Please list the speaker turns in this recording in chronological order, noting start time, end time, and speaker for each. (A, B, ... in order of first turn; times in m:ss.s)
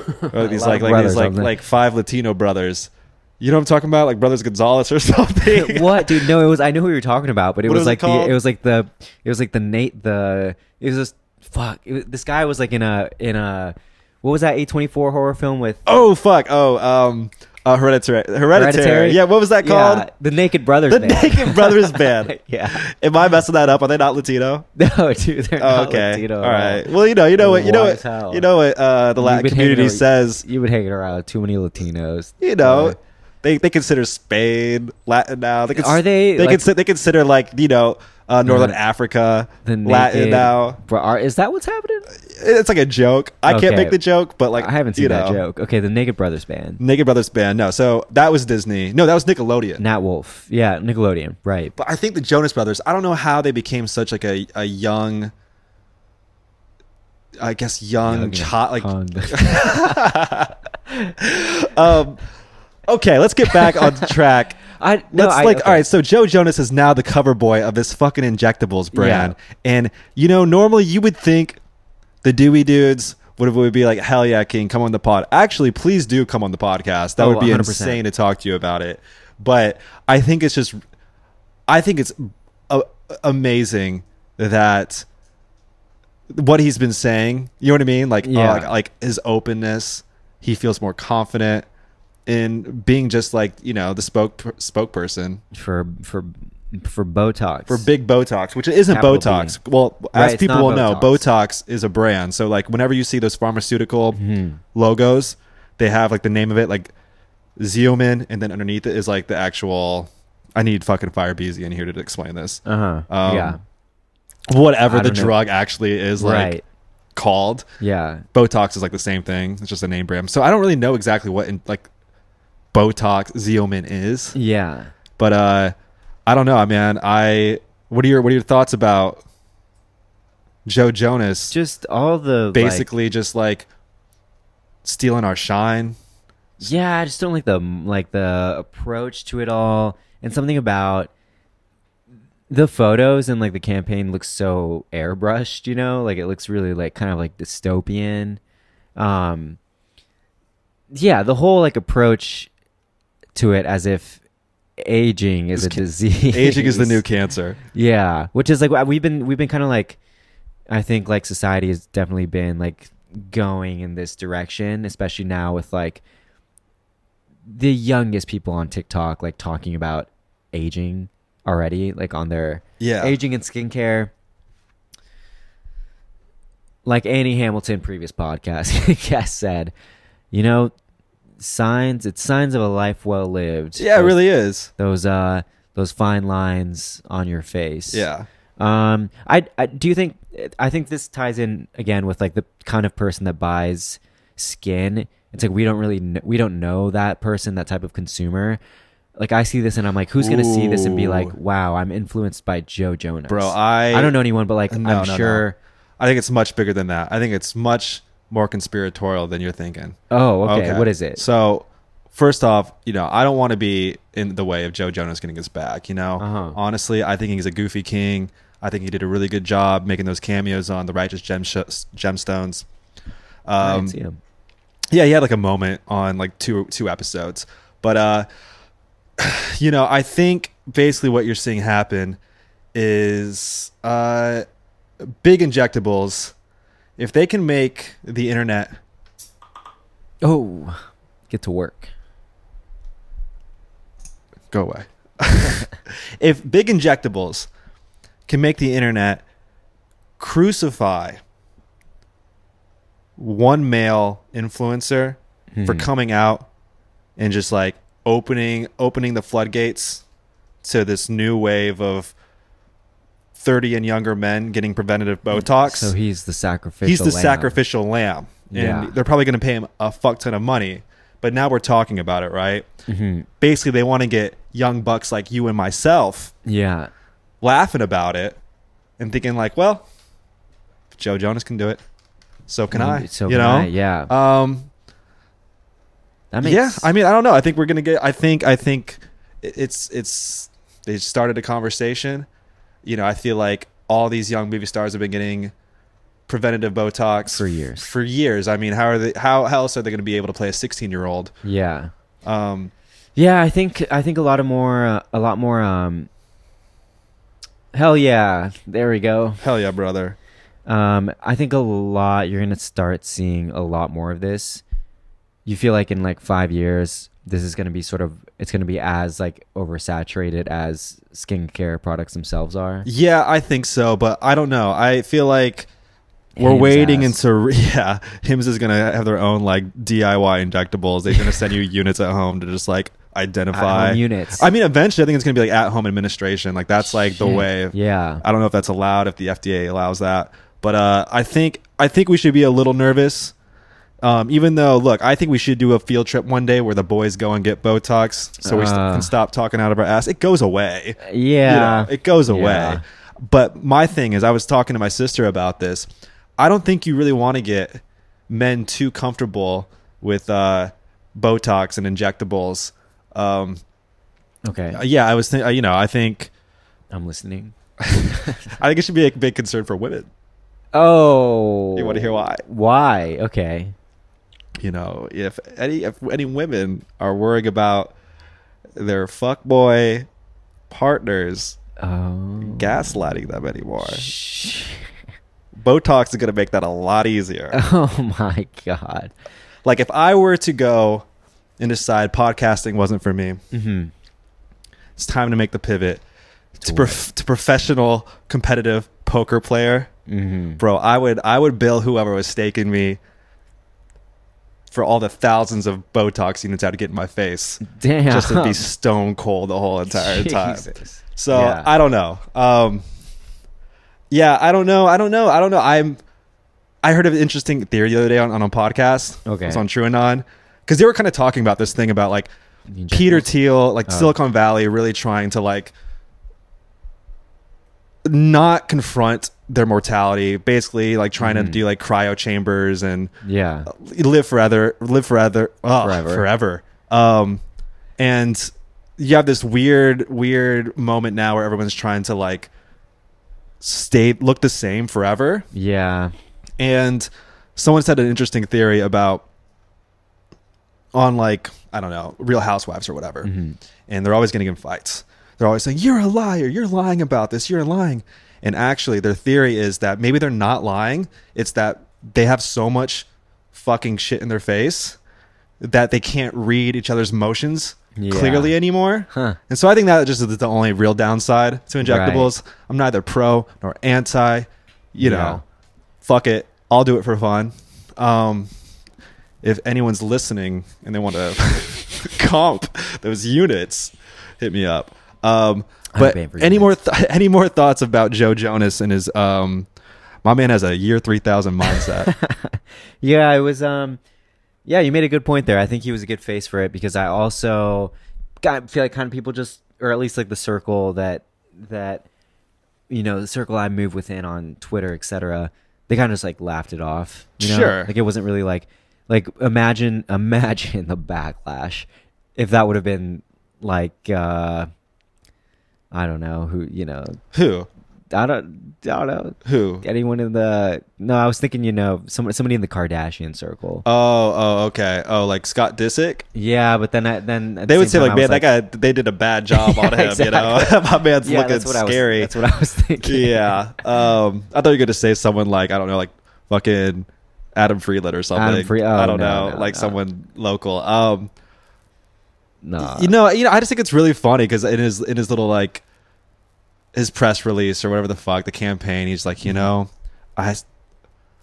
0:00.1-0:01.6 A
0:00.3-0:06.3 B
0:05.5-0:15.9 A
0:07.6-0:08.4 B
0:15.9-0:20.1 B
0:18.5-0:22.8 A
0:20.9-0:24.6 B
0:24.8-0:28.4 A
0:25.6-0:30.4 B
0:29.2-0:33.0 A
0:32.4-0:40.8 B
0:35.7-0:36.7 A
0:38.4-0:38.8 A
0:39.6-0:42.1 A
0:42.2-0:45.4 B
0:43.5-0:44.0 A
0:44.6-0:46.8 A
0:46.8-0:49.8 B
0:49.8-0:51.8 A
0:51.8-0:55.3 B
0:57.4-1:00.6 B
0:58.0-1:00.1 A
1:01.2-1:02.2 B
1:02.9-1:04.6 B
1:03.5-1:04.1 A
1:04.7-1:05.8 A
1:05.1-1:11.6 B
1:08.9-1:09.4 A
1:12.2-1:20.8 B
1:17.2-1:18.0 A
1:21.7-1:25.0 B
1:26.3-1:31.7 B
1:28.2-1:28.7 A
1:32.3-1:35.4 B
1:35.5-1:37.9 A
1:37.7-1:44.2 B
1:38.9-1:39.6 A
1:40.1-1:41.2 A
1:44.1-1:44.6 A
1:44.8-1:46.9 B
1:47.6-1:53.6 B
1:52.6-1:53.6 A
1:54.5-1:56.6 B
1:54.9-1:55.4 A
1:56.2-1:56.6 A
1:57.1-1:57.6 B
1:57.8-1:58.2 A
1:58.3-2:01.9 B
2:02.7-2:04.4 B
2:04.4-2:04.9 A
2:05.2-2:05.7 B
2:06.3-2:09.2 B
2:10.6-2:11.5 B
2:11.5-2:12.9 A
2:12.5-2:13.7 B
2:14.8-2:16.0 B
2:16.6-2:21.1 A
2:22.5-2:28.4 A
2:29.0-2:29.6 A
2:30.9-2:32.5 A
2:33.4-2:34.2 A
2:34.8-2:37.0 A
2:35.6-2:37.6 B
2:37.7-2:40.0 A
2:40.7-2:46.0 A
2:47.4-2:54.1 A
2:52.8-2:53.2 B
2:56.8-2:59.7 A
3:00.3-3:00.7 A
3:01.4-3:04.2 A
3:03.8-3:04.7 B
3:04.8-3:08.1 A
3:07.9-3:08.3 B
3:08.6-3:18.6 A
3:19.2-3:25.6 A
3:20.2-3:21.4 B
3:23.3-3:24.2 B
3:24.7-3:25.4 B
3:26.0-3:42.6 B
3:30.1-3:31.2 A
3:36.2-3:36.6 A
3:43.5-3:44.0 B
3:43.6-3:44.2 A
3:44.9-3:48.3 B
3:49.2-3:52.2 B
3:52.7-3:54.4 B
3:55.0-3:56.3 B
3:57.0-3:58.8 B
4:00.2-4:01.9 A
4:04.5-4:07.5 B
4:08.3-4:09.2 B
4:10.2-4:11.2 B
4:13.2-4:16.5 B
4:15.6-4:15.9 A
4:17.2-4:20.0 B
4:20.6-4:22.1 B
4:23.4-4:25.9 B
4:25.3-4:27.6 A
4:26.8-4:32.7 B
4:28.5-4:29.0 A
4:32.9-4:33.3 A
4:33.4-4:36.3 B
4:36.4-4:36.9 A
4:37.4-4:38.4 B
4:39.0-4:39.8 B
4:40.9-4:41.8 B
4:42.5-4:44.7 B
4:42.7-4:44.1 A
4:46.3-4:46.9 A
4:46.4-4:52.3 B
4:52.8-4:55.5 B
4:56.3-5:01.4 B
4:57.3-4:57.9 A
5:01.4-5:01.9 A
5:02.2-5:02.7 B
5:03.2-5:06.1 A
5:07.7-5:09.4 A
5:09.4-5:10.2 B
5:10.7-5:14.6 A
5:15.4-5:22.9 A
5:22.8-5:25.7 B
5:26.4-5:27.2 A
5:26.4-5:43.3 B
5:33.5-5:34.5 A
5:36.9-5:38.2 A
5:44.0-6:03.6 B
5:48.4-5:49.1 A
5:51.0-5:52.8 A
6:04.4-6:04.8 A
6:04.7-6:06.3 B
6:06.9-6:07.5 A
6:07.8-6:10.1 B
6:08.1-6:08.5 A
6:10.7-6:13.7 A
6:11.8-6:12.4 B
6:14.6-6:17.9 B
6:18.8-6:20.1 B
6:20.7-6:21.6 B
6:21.8-6:23.1 A
6:22.4-6:24.1 B
6:23.8-6:24.9 A
6:25.6-6:27.6 B
6:27.5-6:29.1 A
6:29.6-6:31.0 B
6:31.6-6:33.4 B
6:33.5-6:33.9 A
6:35.0-6:36.0 B
6:36.6-6:39.9 B
6:36.6-6:37.0 A
6:40.1-6:40.6 A
6:40.6-6:43.0 B
6:44.7-6:52.8 B
6:47.6-6:48.6 A
6:49.9-6:51.7 A
6:54.1-6:56.0 B
6:56.8-7:02.3 B
6:59.3-6:59.6 A
7:02.7-7:03.3 A
7:02.9-7:05.7 B
7:03.9-7:04.1 A
7:08.0-7:13.1 B
7:11.2-7:11.6 A
7:13.2-7:13.7 A
7:13.7-7:17.4 B
7:15.8-7:16.3 A
7:18.0-7:22.5 B
7:23.6-7:25.5 B
7:25.5-7:26.1 A
7:26.6-7:29.2 B
7:30.9-7:33.3 B
7:33.2-7:33.6 A
7:33.9-7:45.0 B
7:45.6-7:55.4 B
7:47.9-7:48.6 A
7:49.1-7:49.4 A
7:51.8-7:52.3 A
7:55.0-7:55.4 A
7:56.0-7:58.5 B
7:59.4-8:09.7 B
8:05.9-8:06.7 A
8:10.2-8:12.1 B
8:11.7-8:14.0 A
8:14.6-8:22.0 A
8:22.9-8:34.7 A
8:27.4-8:27.9 B
8:35.9-8:37.2 A
8:37.3-8:37.7 B
8:38.1-8:43.9 A
8:39.4-8:39.8 B
8:43.8-8:46.2 B
8:46.4-8:48.5 A
8:47.7-8:52.3 B
8:49.5-8:53.8 A
8:53.0-9:01.3 B
8:58.4-9:00.0 A
9:02.6-9:03.1 A
9:02.8-9:05.8 B
9:06.9-9:10.6 B